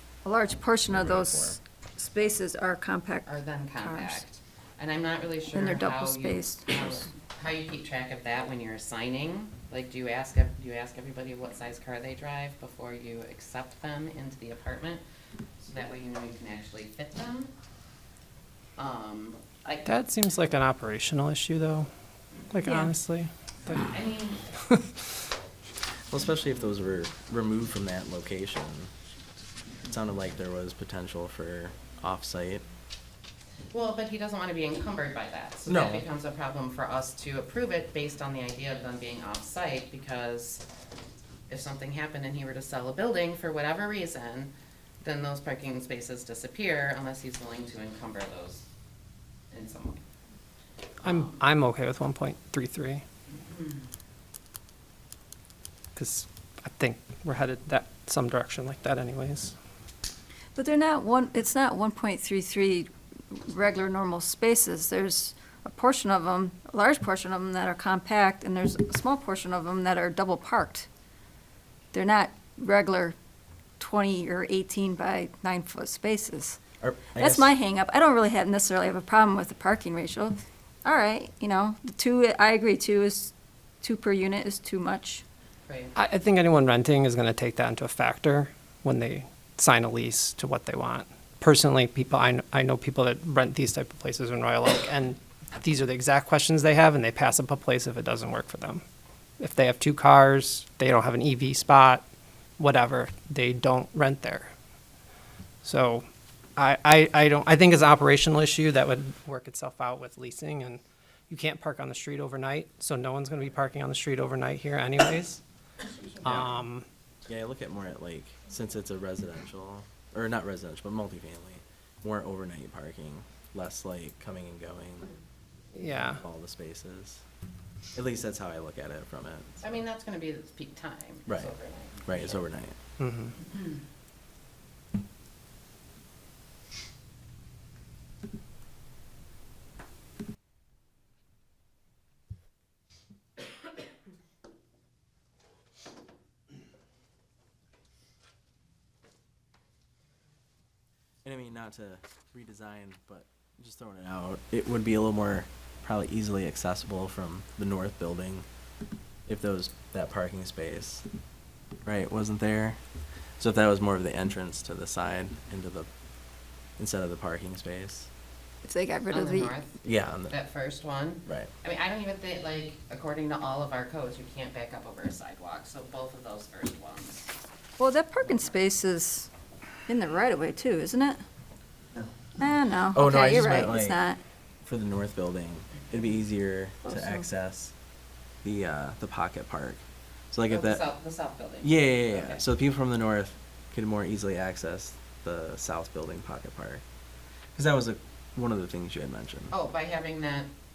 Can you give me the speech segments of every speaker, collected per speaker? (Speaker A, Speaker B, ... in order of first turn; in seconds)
Speaker A: 0.2-4.2, 5.5-7.1, 60.5-70.9, 71.9-73.1, 73.8-76.6, 77.1-85.2, 168.6-169.5, 177.8-179.3, 179.9-181.2, 182.4-184.2
Speaker B: 0.9-1.6, 26.1-28.9, 29.9-32.6, 35.6-36.0, 76.8-77.5, 117.3-125.1, 126.1-127.2, 127.9-129.5, 131.3-131.5, 132.0-132.8, 151.2-158.4, 159.3-161.0, 161.8-162.8, 163.4-165.9, 166.8-168.1, 169.8-170.3, 182.9-184.0, 184.6-187.7, 188.4-190.8, 191.6-196.8, 197.5-199.5
Speaker C: 3.2-15.0, 15.6-17.5, 18.8-19.9, 23.7-24.4, 33.7-40.6, 41.5-48.6, 49.5-50.0, 51.0-51.4, 53.3-53.9, 85.7-85.9, 129.6-132.4, 133.5-133.8, 169.1-177.3, 190.5-192.4, 199.5-200.5
Speaker D: 19.8-21.9, 22.5-23.9, 24.6-24.9, 51.0-53.0, 55.9-59.5, 86.0-98.8, 99.4-102.0, 102.6-104.5, 105.6-106.0, 106.6-115.4, 116.2-116.8, 125.7-126.2, 133.0-133.3